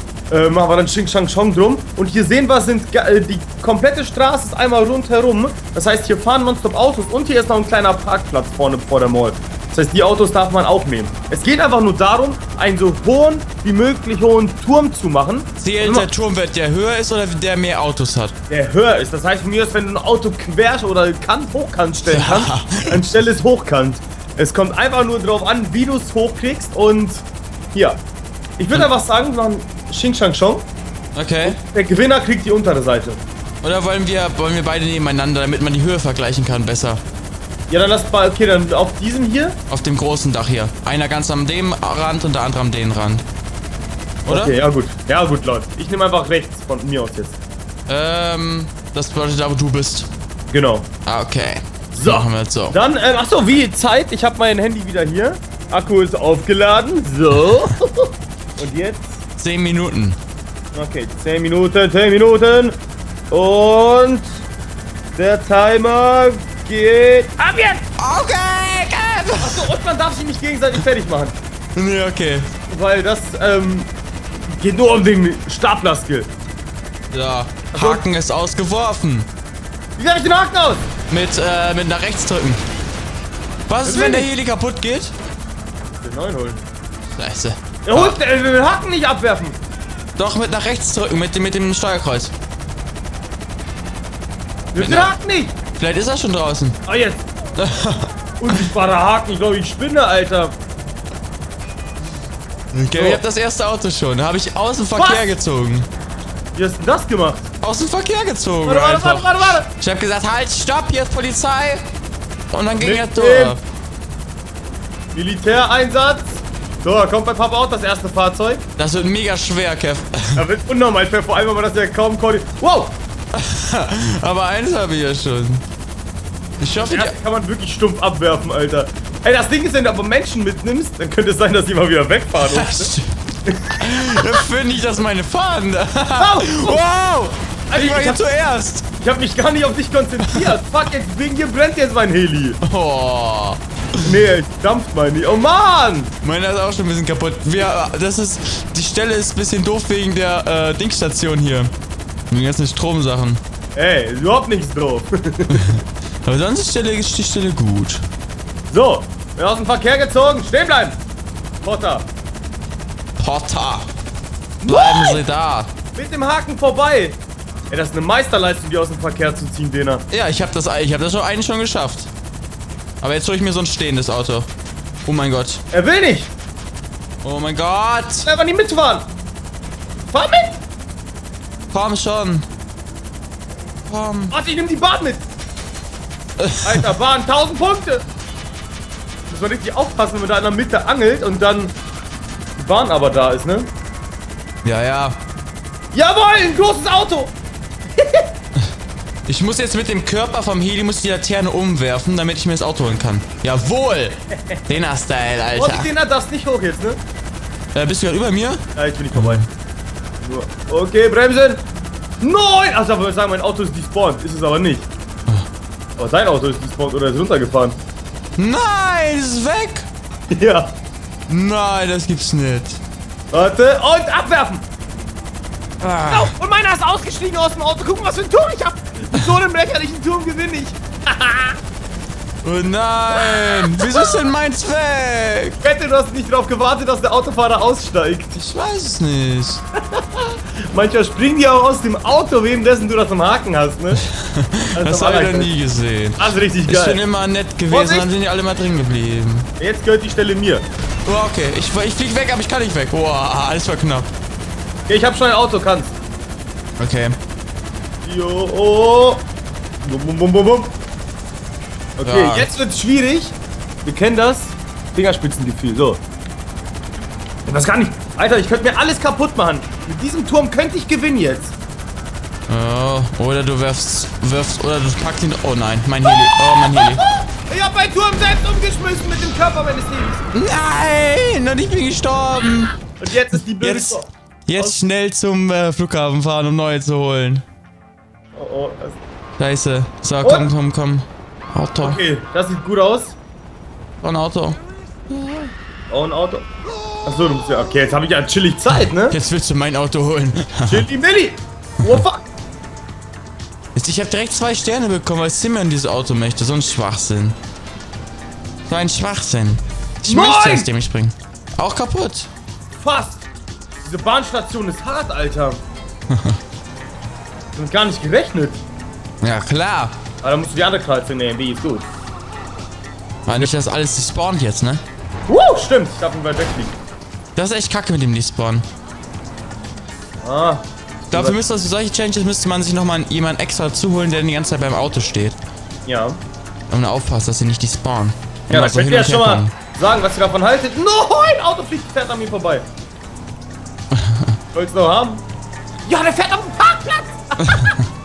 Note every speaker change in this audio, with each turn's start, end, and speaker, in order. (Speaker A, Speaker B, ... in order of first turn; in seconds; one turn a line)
Speaker A: 0.3-16.1
Speaker B: 15.6-18.3
Speaker A: 18.5-28.0
Speaker B: 22.1-23.0
Speaker A: 28.6-30.7
Speaker B: 31.1-31.6
Speaker A: 31.4-33.2
Speaker B: 33.6-37.0
Speaker A: 37.7-39.6
Speaker B: 39.7-43.2
Speaker B: 44.2-44.5
Speaker A: 44.3-47.4
Speaker B: 47.9-50.1
Speaker A: 50.5-50.9
Speaker B: 51.0-52.8
Speaker A: 52.0-59.2
Speaker B: 59.4-60.2
Speaker A: 60.7-62.8
Speaker A: 63.3-64.4
Speaker A: 65.2-67.8
Speaker B: 68.0-69.7
Speaker A: 69.4-71.4
Speaker B: 71.7-72.5
Speaker A: 72.7-73.9
Speaker A: 74.5-76.3
Speaker B: 77.1-79.3
Speaker A: 77.7-78.0
Speaker A: 80.0-80.9
Speaker B: 81.1-82.6
Speaker B: 83.7-85.1
Speaker A: 83.8-84.3
Speaker A: 86.0-86.6
Speaker B: 87.1-88.2
Speaker A: 87.8-89.6
Speaker B: 90.2-92.3
Speaker A: 94.7-95.5
Speaker B: 94.8-95.1
Speaker B: 95.7-96.8
Speaker A: 96.8-97.3
Speaker B: 97.6-98.6
Speaker A: 98.4-100.6
Speaker B: 102.7-105.9
Speaker A: 102.9-103.2
Speaker A: 105.0-105.3
Speaker A: 106.5-107.5
Speaker B: 107.6-111.8
Speaker A: 108.6-109.7
Speaker B: 112.5-113.6
Speaker A: 112.8-113.6
Speaker A: 115.1-118.6
Speaker B: 118.8-120.4
Speaker A: 120.4-123.0
Speaker B: 123.3-125.6
Speaker B: 126.6-127.1
Speaker A: 126.8-132.9
Speaker B: 132.4-133.1
Speaker A: 133.5-134.4
Speaker B: 133.7-138.8
Speaker A: 136.2-136.8
Speaker A: 137.7-138.2
Speaker A: 139.0-142.6
Speaker B: 142.6-143.6
Speaker A: 144.0-146.1
Speaker B: 146.2-151.7
Speaker B: 152.3-153.4
Speaker A: 153.8-155.7
Speaker B: 155.5-158.0
Speaker A: 158.7-161.0
Speaker A: 161.6-162.1
Speaker B: 163.2-163.9
Speaker A: 164.6-165.2
Speaker B: 164.7-165.7
Speaker A: 165.9-170.1
Speaker B: 170.1-172.1
Speaker B: 173.0-174.5
Speaker B: 175.0-175.6
Speaker A: 175.7-176.3
Speaker B: 177.2-178.3
Speaker A: 178.2-179.1
Speaker A: 180.1-180.6
Speaker B: 181.7-182.4
Speaker B: 183.9-184.3
Speaker A: 184.3-185.3
Speaker A: 186.6-188.0
Speaker A: 189.3-191.8
Speaker A: 192.6-193.7
Speaker B: 194.6-195.2
Speaker A: 195.9-197.3
Speaker A: 198.0-198.3
Speaker B: 199.2-205.9
Speaker A: 204.3-204.6
Speaker A: 205.5-207.0
Speaker B: 207.7-208.6
Speaker A: 208.8-209.4
Speaker B: 209.1-209.5
Speaker A: 210.2-211.6
Speaker A: 212.2-214.9
Speaker A: 216.0-217.8
Speaker B: 218.4-219.9
Speaker A: 220.3-220.8
Speaker B: 221.3-222.8
Speaker A: 223.3-224.7
Speaker B: 225.8-226.3
Speaker A: 226.1-231.6
Speaker B: 232.4-235.6
Speaker A: 233.2-234.2
Speaker A: 235.6-238.3
Speaker B: 238.3-239.6
Speaker A: 239.8-244.0
Speaker B: 244.0-249.5
Speaker A: 244.8-245.5
Speaker A: 246.2-247.0
Speaker A: 247.7-248.1
Speaker A: 249.6-250.7
Speaker B: 251.1-254.1
Speaker A: 254.9-255.9
Speaker B: 256.8-257.1
Speaker A: 258.0-259.3
Speaker A: 259.8-260.7
Speaker A: 262.0-266.0
Speaker B: 262.0-262.5
Speaker A: 267.5-271.5
Speaker B: 272.5-277.0
Speaker A: 276.0-280.2
Speaker B: 280.3-282.7
Speaker A: 283.0-284.8
Speaker B: 283.6-287.4
Speaker A: 288.3-289.0
Speaker B: 289.4-292.0
Speaker A: 290.2-290.5
Speaker A: 291.8-293.2
Speaker B: 294.0-294.6
Speaker B: 295.1-295.5
Speaker A: 295.9-296.5
Speaker A: 297.1-299.2
Speaker B: 299.1-300.8
Speaker A: 300.7-302.3
Speaker B: 303.7-307.4
Speaker B: 308.7-312.3
Speaker A: 310.1-310.7
Speaker A: 312.7-313.2
Speaker A: 313.8-315.6
Speaker B: 316.1-316.4
Speaker A: 317.6-318.6
Speaker B: 319.2-319.9
Speaker A: 320.2-321.9
Speaker B: 323.2-324.8
Speaker A: 325.3-326.7
Speaker B: 327.4-328.6
Speaker A: 330.2-331.4
Speaker B: 331.1-335.4
Speaker A: 335.9-336.2
Speaker B: 336.7-339.5
Speaker A: 338.5-342.6
Speaker B: 343.9-344.2
Speaker A: 344.5-345.2
Speaker A: 345.8-347.6
Speaker B: 347.5-347.7